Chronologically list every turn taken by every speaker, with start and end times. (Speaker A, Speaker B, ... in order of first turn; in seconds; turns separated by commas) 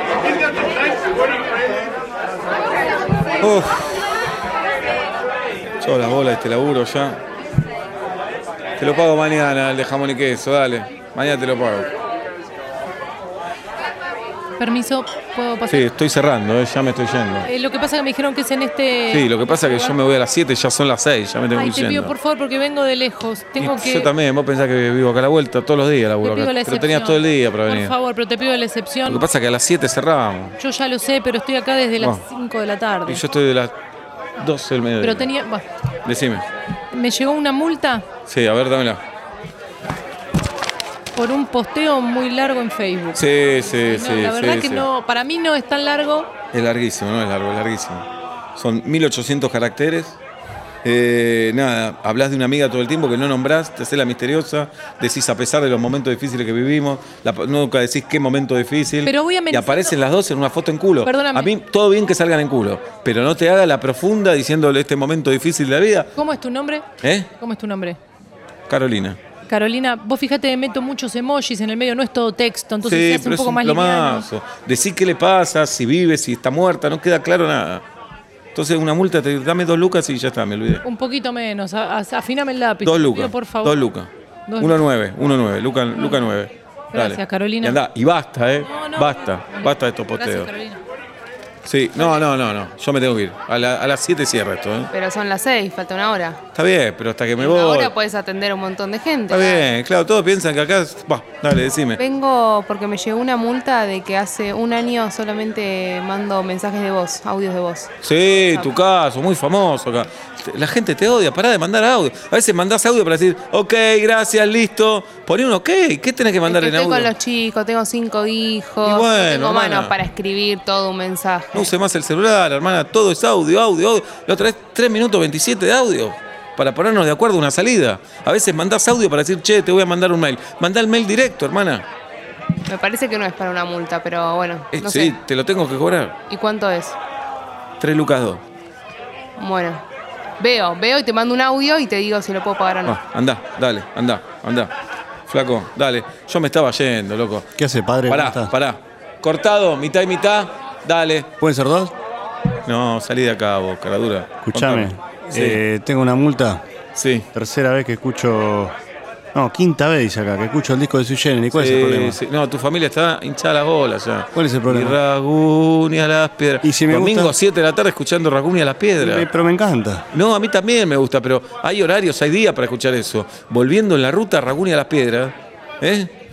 Speaker A: 3.4-4.0, Speaker A: 5.8-7.2, Speaker A: 8.8-11.9, Speaker B: 14.6-15.9, Speaker A: 15.7-17.5, Speaker B: 17.4-19.9, Speaker A: 19.1-22.1, Speaker B: 21.6-24.1, Speaker A: 23.6-27.9, Speaker B: 26.2-29.3, Speaker A: 29.1-30.6, Speaker B: 30.6-33.2, Speaker A: 33.1-33.7, Speaker A: 34.4-35.3, Speaker B: 35.0-35.6, Speaker A: 36.0-36.5, Speaker B: 36.9-38.1, Speaker A: 38.3-39.0, Speaker B: 41.2-46.3, Speaker A: 43.1-44.9, Speaker A: 46.5-50.2, Speaker A: 50.8-66.1, Speaker B: 59.0-59.9, Speaker B: 61.0-61.5, Speaker B: 66.2-68.0, Speaker A: 67.0-67.3, Speaker A: 68.7-69.2, Speaker B: 69.5-74.3, Speaker A: 72.8-77.8, Speaker A: 78.5-80.8, Speaker B: 80.8-83.8, Speaker A: 82.8-90.5, Speaker B: 84.5-84.8, Speaker B: 85.9-86.3, Speaker B: 86.9-87.8, Speaker B: 88.6-90.8, Speaker A: 91.7-94.9, Speaker C: 94.9-96.4, Speaker A: 96.5-97.9, Speaker C: 97.4-99.7, Speaker A: 99.3-102.0, Speaker C: 102.0-107.9, Speaker A: 108.0-117.1, Speaker C: 108.5-108.8, Speaker C: 116.5-121.7, Speaker A: 118.8-119.9, Speaker A: 121.5-131.8, Speaker C: 132.7-135.2, Speaker A: 134.7-136.2, Speaker C: 136.3-136.9, Speaker A: 137.8-138.4, Speaker C: 139.4-139.8, Speaker C: 140.4-143.0, Speaker A: 142.8-144.7, Speaker A: 145.3-147.5, Speaker D: 147.6-148.5, Speaker A: 148.1-151.3, Speaker D: 151.4-151.9, Speaker A: 152.7-155.6, Speaker D: 154.4-156.6, Speaker A: 156.9-157.3, Speaker D: 157.3-158.8, Speaker D: 159.3-162.2, Speaker A: 161.5-169.3, Speaker D: 164.3-165.0, Speaker D: 166.6-167.3, Speaker D: 169.0-170.1, Speaker A: 170.1-176.1